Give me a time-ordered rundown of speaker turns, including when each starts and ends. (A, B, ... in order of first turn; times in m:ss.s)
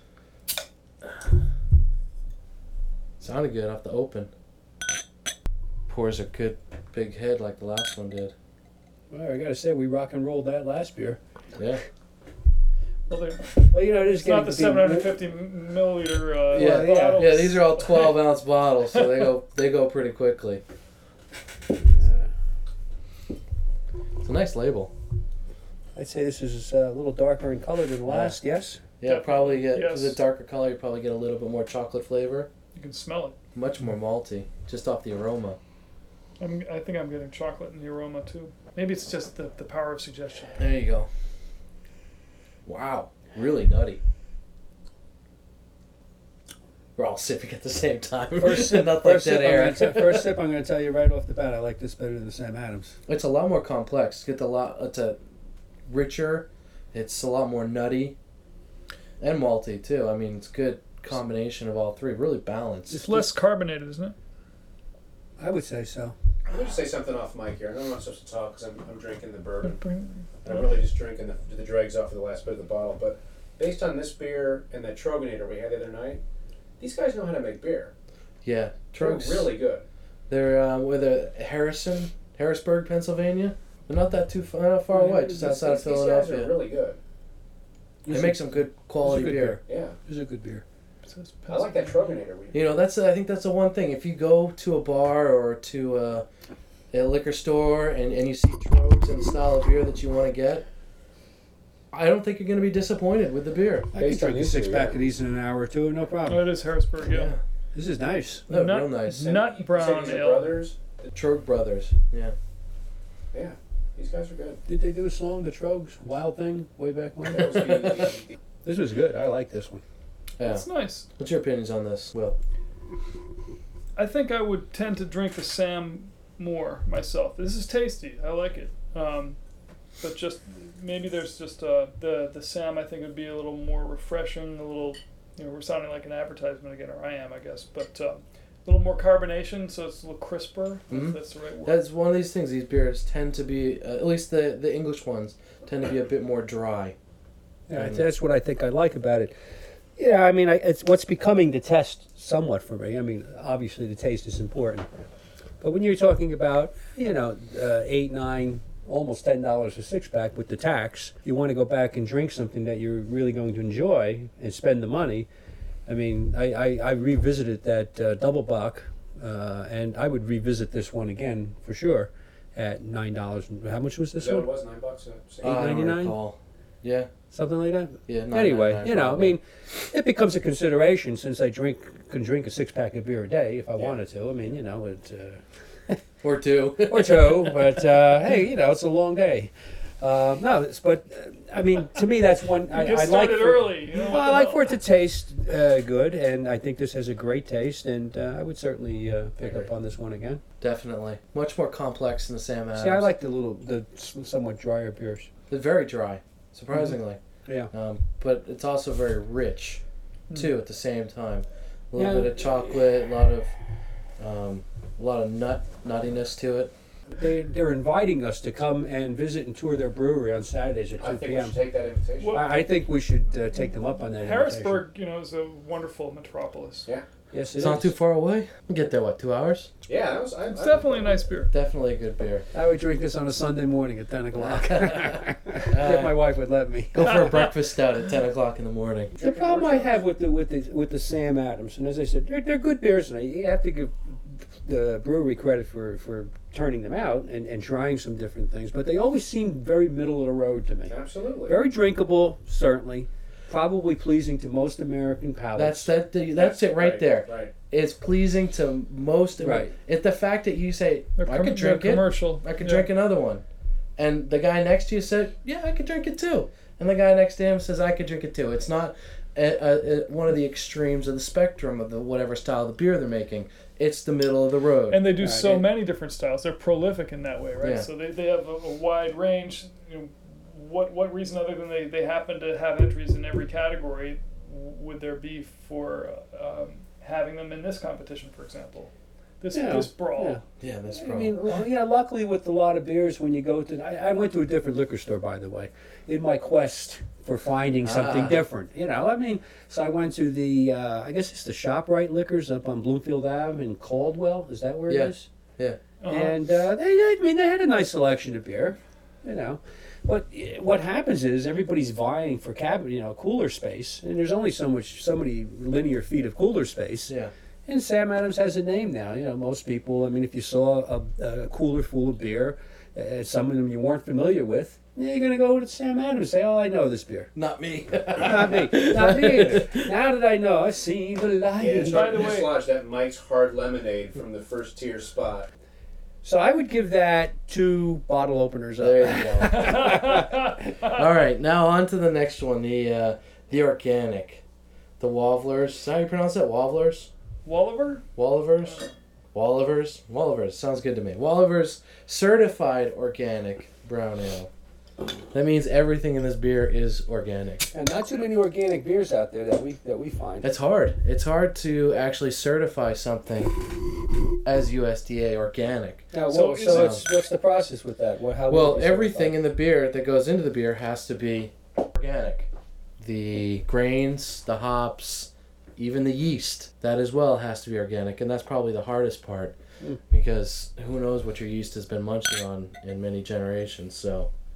0:03.2-0:04.3 A
0:05.9-0:08.3 A
0:09.1-0:11.2 B
0:11.6-0:11.8 A
0:13.1-0:18.2 C
0:13.7-0:15.1 B
0:16.5-0:20.6 A
0:16.5-0:17.3 B
0:21.9-0:22.3 B
0:24.2-0:24.9 A
0:26.0-0:28.8 B
0:28.1-0:28.4 A
0:29.0-0:32.5 A
0:29.0-0:30.2 C
0:32.7-0:33.4 C
0:33.5-0:35.6 A
0:36.4-0:40.6 C
0:40.6-0:41.1 A
0:42.6-0:44.0 A
0:47.0-0:50.3 A
0:48.4-0:53.0 B
0:53.1-0:55.2 A
0:55.8-0:58.2 A
0:59.2-1:02.9 A
1:02.9-1:03.3 B
1:02.9-1:04.1 C
1:05.4-1:06.1 B
1:06.5-1:09.8 D
1:09.6-1:10.8 C
1:10.4-1:16.2 D
1:16.8-1:17.9 D
1:18.4-1:19.5 A
1:19.0-1:19.8 D
1:20.3-1:26.5 A
1:25.0-1:27.0 D
1:28.0-1:30.6 B
1:28.1-1:29.6 A
1:29.7-1:30.0 D
1:31.0-1:32.2 C
1:31.5-1:32.6 D
1:32.5-1:36.2 A
1:36.9-1:40.6 A
1:41.9-1:43.9 A
1:43.9-1:46.5 B
1:43.9-1:45.0 D
1:46.2-1:47.3 C
1:47.0-1:47.4 A
1:47.7-1:48.5 B
1:48.5-1:49.3 A
1:48.5-1:50.6 C
1:49.1-1:50.8 D
1:51.1-1:52.3 A
1:53.3-1:54.6 D
1:54.6-1:58.1 B
1:57.2-1:58.3 D
1:58.6-1:59.8 B
2:00.4-2:00.6 A
2:00.4-2:01.1 C
2:01.2-2:02.4 A
2:04.0-2:09.4 C
2:10.0-2:21.8 C
2:20.9-2:27.0 A
2:27.7-2:29.3 B
2:27.7-2:28.0 A
2:30.0-2:34.9 B
2:35.6-2:45.3 B
2:45.9-2:54.5 B
2:54.2-2:55.6 D
2:55.4-2:57.1 A
2:55.4-2:56.2 B
2:57.3-3:06.0 B
2:58.1-2:59.4 A
3:06.2-3:07.8 A
3:06.9-3:20.4 B
3:12.7-3:14.7 C
3:20.6-3:23.1 A
3:22.7-3:25.3 B
3:25.5-3:29.8 A
3:27.4-3:27.7 B
3:30.3-3:33.5 A
3:32.0-3:32.4 B
3:34.2-3:36.7 A
3:37.1-3:41.6 B
3:41.0-3:42.4 D
3:42.2-3:42.5 C
3:42.3-3:44.8 B
3:44.2-3:46.9 C
3:47.3-3:47.9 B
3:47.6-3:49.7 A
3:49.9-3:51.2 D
3:50.5-3:51.5 C
3:51.5-3:52.4 A
3:52.5-3:57.3 B
3:54.4-3:56.2 A
3:56.9-3:59.1 A
3:59.1-4:00.0 D
3:59.2-4:10.9 B
4:10.8-4:11.6 D
4:11.5-4:15.9 B
4:15.5-4:23.4 A
4:16.4-4:17.5 D
4:19.4-4:19.7 B
4:21.2-4:22.9 C
4:24.0-4:35.1 A
4:34.9-4:50.4 C
4:35.2-4:35.6 B
4:37.6-4:37.9 A
4:49.5-4:50.4 B
4:50.6-4:51.3 A
4:50.9-5:05.3 B
4:57.8-4:58.4 A
5:04.9-5:05.8 A
5:06.0-5:06.4 C
5:06.0-5:17.1 B
5:17.6-5:27.3 B
5:27.3-5:29.9 A
5:28.1-5:32.2 B
5:31.6-5:35.5 D
5:31.9-5:32.6 C
5:36.2-5:40.4 B
5:38.8-5:40.1 A
5:39.5-5:40.9 C
5:40.8-5:44.4 A
5:45.0-5:47.1 A
5:47.4-5:48.0 C
5:48.2-5:54.5 A
5:48.6-5:48.9 C
5:55.3-5:57.7 A
5:57.7-6:00.5 B
6:00.4-6:03.6 A
6:04.4-6:06.1 A
6:06.1-6:09.4 B
6:06.3-6:07.0 C
6:06.7-6:07.0 A
6:08.5-6:12.5 A
6:13.0-6:19.6 A
6:20.1-6:24.3 A